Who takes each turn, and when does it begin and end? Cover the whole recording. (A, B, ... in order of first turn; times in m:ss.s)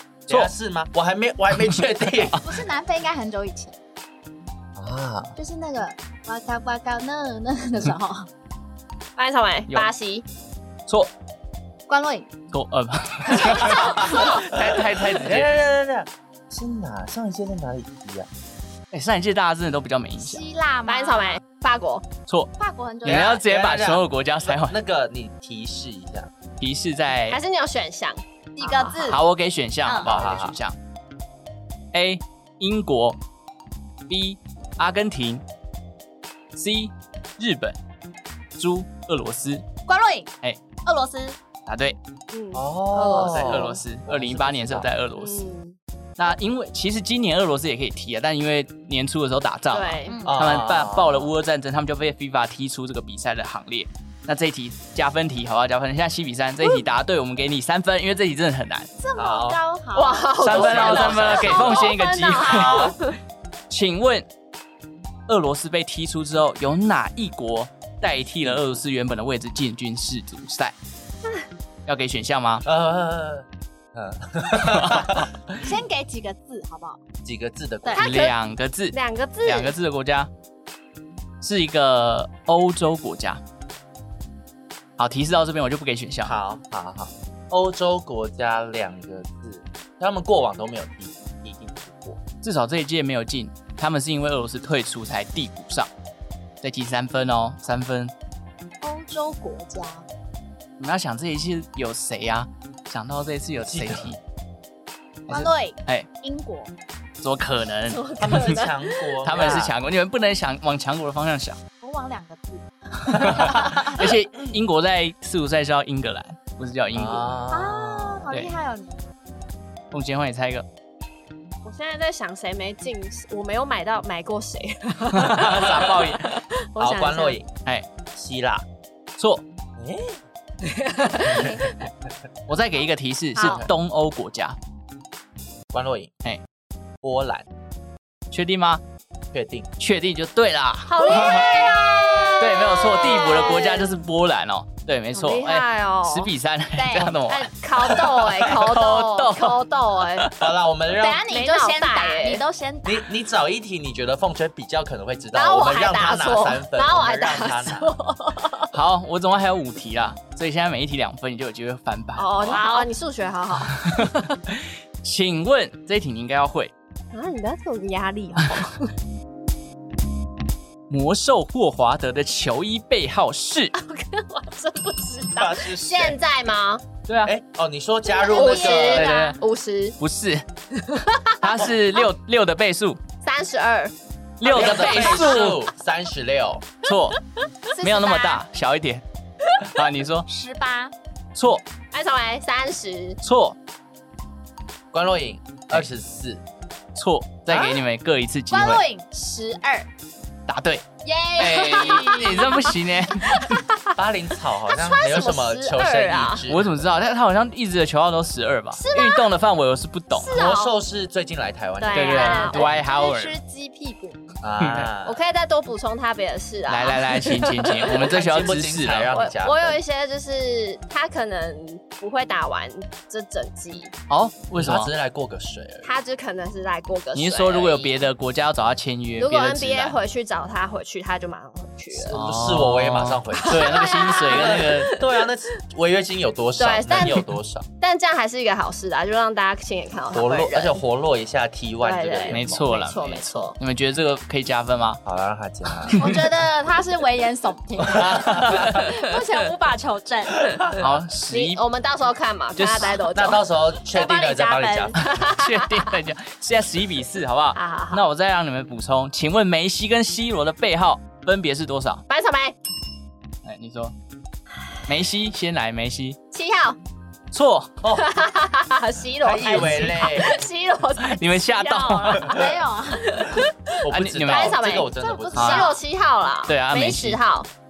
0:00.3-0:02.4 A
0:01.7-0:02.6 B
0:02.4-0:03.8 C
0:04.8-0:05.4 A
0:05.4-0:08.3 C
0:09.2-0:10.2 D
0:11.9-0:12.3 C
0:12.5-0:15.6 B
0:13.4-0:14.3 C
0:14.0-0:18.3 A
0:18.9-0:20.5 B
0:20.2-0:21.4 C
0:20.9-0:22.0 D
0:22.6-0:23.4 C
0:23.0-0:24.8 B
0:23.0-0:26.3 A
0:26.6-0:27.4 B
0:27.3-0:29.2 D
0:28.6-0:29.2 C
0:29.0-0:30.8 B
0:29.8-0:30.1 C
0:30.0-0:30.6 A
0:31.9-0:33.2 B
0:34.1-0:35.4 B
0:36.6-0:37.8 B
0:38.6-0:39.7 B
0:39.9-0:40.3 C
0:40.8-0:41.4 C
0:41.7-0:42.0 B
0:42.3-0:43.8 D
0:42.5-0:44.9 A
0:43.2-0:45.5 B
0:45.2-0:45.8 D
0:46.2-0:58.9 B
0:49.7-0:50.2 D
0:50.1-0:50.3 C
0:50.2-0:51.3 A
0:59.0-1:00.9 C
0:59.2-0:59.6 A
1:00.0-1:03.1 D
1:00.4-1:03.0 B
1:00.5-1:01.9 A
1:02.5-1:02.9 A
1:03.7-1:04.3 B
1:05.3-1:10.8 B
1:08.5-1:08.7 A
1:11.9-1:12.6 B
1:12.7-1:15.3 A
1:14.5-1:15.3 B
1:15.6-1:17.0 C
1:17.2-1:18.1 A
1:17.9-1:18.3 D
1:18.0-1:20.3 B
1:18.9-1:19.7 D
1:21.4-1:23.4 B
1:25.0-1:26.4 B
1:26.2-1:32.2 A
1:32.4-1:35.9 B
1:36.6-1:38.1 B
1:38.8-1:40.1 C
1:40.8-1:44.2 B
1:43.6-1:44.1 A
1:45.3-1:46.1 B
1:45.3-1:46.7 C
1:47.2-1:48.6 B
1:47.9-1:48.9 D
1:48.2-1:49.8 A
1:49.2-1:51.6 B
1:51.8-1:54.0 C
1:53.1-1:57.4 B
1:56.9-1:58.3 A
1:57.5-1:59.0 C
1:58.3-1:58.6 B
1:59.9-2:00.7 B
2:01.6-2:07.4 D
2:05.1-2:06.2 B
2:06.8-2:07.5 A
2:08.1-2:08.6 A
2:09.2-2:09.4 B
2:09.8-2:10.2 A
2:10.8-2:11.6 D
2:12.5-2:14.6 B
2:13.4-2:13.6 C
2:15.7-2:16.1 A
2:17.0-2:17.5 A
2:18.3-2:18.8 B
2:19.3-2:19.7 A
2:19.8-2:21.5 B
2:20.9-2:23.9 D
2:21.0-2:22.3 C
2:22.4-2:29.6 B
2:25.1-2:26.3 D
2:26.8-2:27.2 C
2:27.3-2:30.3 D
2:30.2-2:30.5 B
2:30.4-2:31.2 A
2:30.9-2:33.1 C
2:31.1-2:32.4 D
2:32.8-2:38.0 A
2:35.3-2:38.7 D
2:38.7-2:42.6 B
2:42.2-2:44.3 D
2:42.5-2:42.9 C
2:43.8-2:46.7 B
2:47.1-2:48.9 D
2:50.9-2:53.7 B
2:53.8-2:56.8 D
2:55.4-2:56.2 A
2:57.1-2:57.3 B
2:57.2-2:59.1 A
2:58.1-3:00.0 D
2:58.2-2:59.3 C
2:58.8-2:59.4 B
3:00.0-3:00.4 B
3:00.8-3:01.5 D
3:01.4-3:03.0 B
3:03.2-3:03.9 D
3:04.4-3:05.6 B
3:04.4-3:06.7 A
3:04.6-3:05.4 D
3:06.8-3:07.2 B
3:07.7-3:08.4 C
3:07.8-3:09.0 B
3:09.6-3:10.3 B
3:10.3-3:10.9 C
3:11.4-3:11.6 B
3:11.9-3:13.2 D
3:13.2-3:13.6 B
3:14.9-3:16.4 A
3:17.0-3:18.8 B
3:18.5-3:19.9 C
3:20.5-3:20.8 B
3:21.0-3:22.7 C
3:21.4-3:23.6 B
3:21.7-3:22.5 D
3:23.9-3:26.7 A
3:24.7-3:26.4 D
3:26.5-3:30.3 B
3:28.8-3:29.3 D
3:30.2-3:30.8 D
3:30.3-3:32.3 A
3:31.8-3:32.8 D
3:31.9-3:33.4 B
3:32.1-3:34.2 C
3:34.4-3:35.2 A
3:34.6-3:34.9 B
3:35.0-3:38.0 D
3:36.7-3:39.2 B
3:38.0-3:39.8 A
3:39.1-3:43.9 D
3:44.1-3:44.9 B
3:44.6-3:45.9 A
3:45.8-3:48.0 D
3:47.1-3:50.0 B
3:49.2-3:52.2 D
3:52.0-3:55.0 B
3:52.1-3:57.7 A
3:53.4-3:55.3 D
3:56.6-3:57.3 D
3:57.8-4:00.8 D
4:00.1-4:02.7 A
4:01.8-4:03.6 D
4:02.3-4:05.0 B
4:05.0-4:06.0 A
4:05.9-4:06.2 B
4:06.0-4:10.6 C
4:08.0-4:08.7 A
4:08.0-4:08.7 B
4:10.8-4:11.6 B
4:11.3-4:13.5 D
4:12.6-4:13.0 B
4:13.1-4:15.0 A
4:13.9-4:14.9 C
4:14.1-4:16.0 D
4:15.1-4:22.0 B
4:17.5-4:18.1 D
4:22.1-4:22.6 D
4:23.4-4:23.9 B
4:24.9-4:26.2 B
4:26.3-4:26.8 D
4:27.3-4:27.8 B
4:28.0-4:37.5 D
4:29.2-4:30.4 A
4:31.0-4:32.3 B
4:32.2-4:33.2 C
4:33.8-4:35.8 A
4:33.9-4:34.6 B
4:34.9-4:35.8 C
4:35.3-4:35.8 B
4:36.5-4:37.2 B